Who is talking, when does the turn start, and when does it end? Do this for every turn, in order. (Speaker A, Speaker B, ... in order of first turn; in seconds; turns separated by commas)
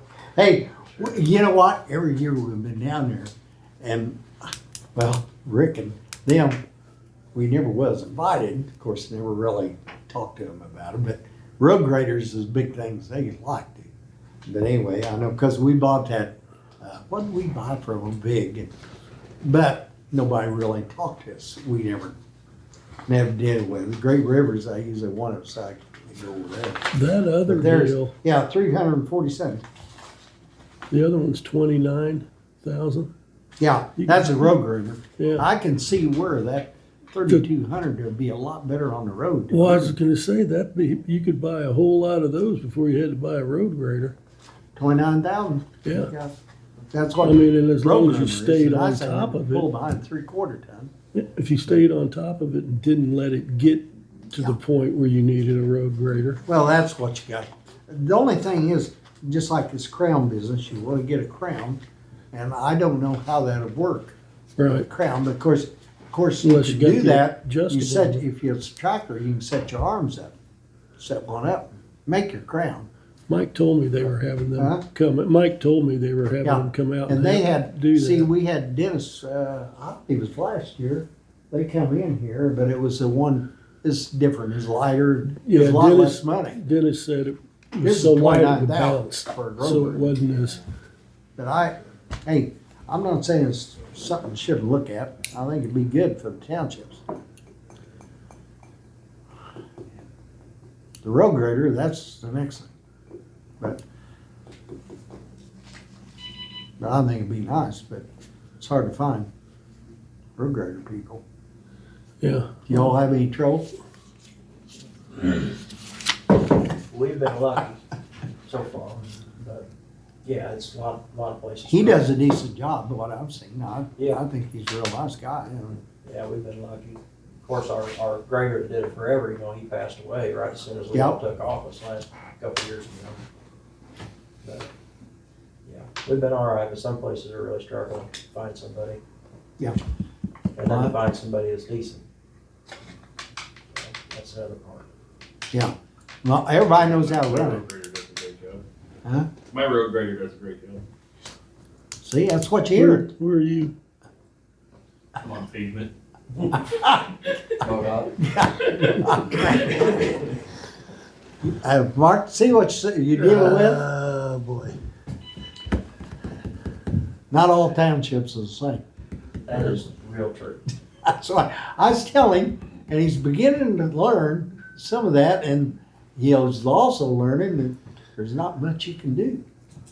Speaker A: 0.3-6.6, Speaker A: 7.3-13.9, Speaker A: 14.4-18.7, Speaker A: 19.4-22.2, Speaker A: 23.1-26.9, Speaker B: 26.9-28.1, Speaker A: 27.5-29.6, Speaker B: 30.9-33.1, Speaker A: 33.6-39.9, Speaker B: 34.0-34.5, Speaker B: 35.2-35.4, Speaker B: 39.5-44.1, Speaker A: 44.8-46.3, Speaker B: 45.8-46.1, Speaker A: 46.9-50.9, Speaker B: 47.2-49.7, Speaker B: 51.1-56.4, Speaker A: 56.5-61.8, Speaker A: 62.3-70.3, Speaker B: 64.6-64.8, Speaker B: 66.4-68.2, Speaker A: 71.0-72.9, Speaker B: 73.3-78.3, Speaker A: 74.6-74.8, Speaker A: 76.4-86.6, Speaker B: 85.4-90.6, Speaker A: 87.8-90.1, Speaker A: 91.4-97.0, Speaker A: 101.0-102.7, Speaker A: 106.8-108.0, Speaker A: 108.6-109.3, Speaker A: 110.4-111.2, Speaker B: 112.2-112.6, Speaker A: 112.7-113.7, Speaker C: 116.8-117.8, Speaker C: 118.5-119.7, Speaker C: 120.2-122.1, Speaker A: 121.7-125.8, Speaker C: 124.0-124.2, Speaker C: 126.0-133.2, Speaker A: 130.9-131.2, Speaker C: 134.4-134.7, Speaker C: 135.7-139.0, Speaker C: 140.6-142.0, Speaker A: 140.7-140.9, Speaker C: 143.8-144.9, Speaker A: 145.5-147.6, Speaker D: 146.8-148.6, Speaker A: 149.0-149.3, Speaker D: 149.4-150.8, Speaker A: 152.0-153.1, Speaker B: 152.7-153.7, Speaker D: 155.2-155.9, Speaker A: 156.7-157.0, Speaker C: 157.6-158.2, Speaker A: 158.2-160.1, Speaker A: 161.4-163.8, Speaker B: 163.1-164.8, Speaker A: 167.3-168.8, Speaker C: 169.4-170.7, Speaker A: 171.0-179.4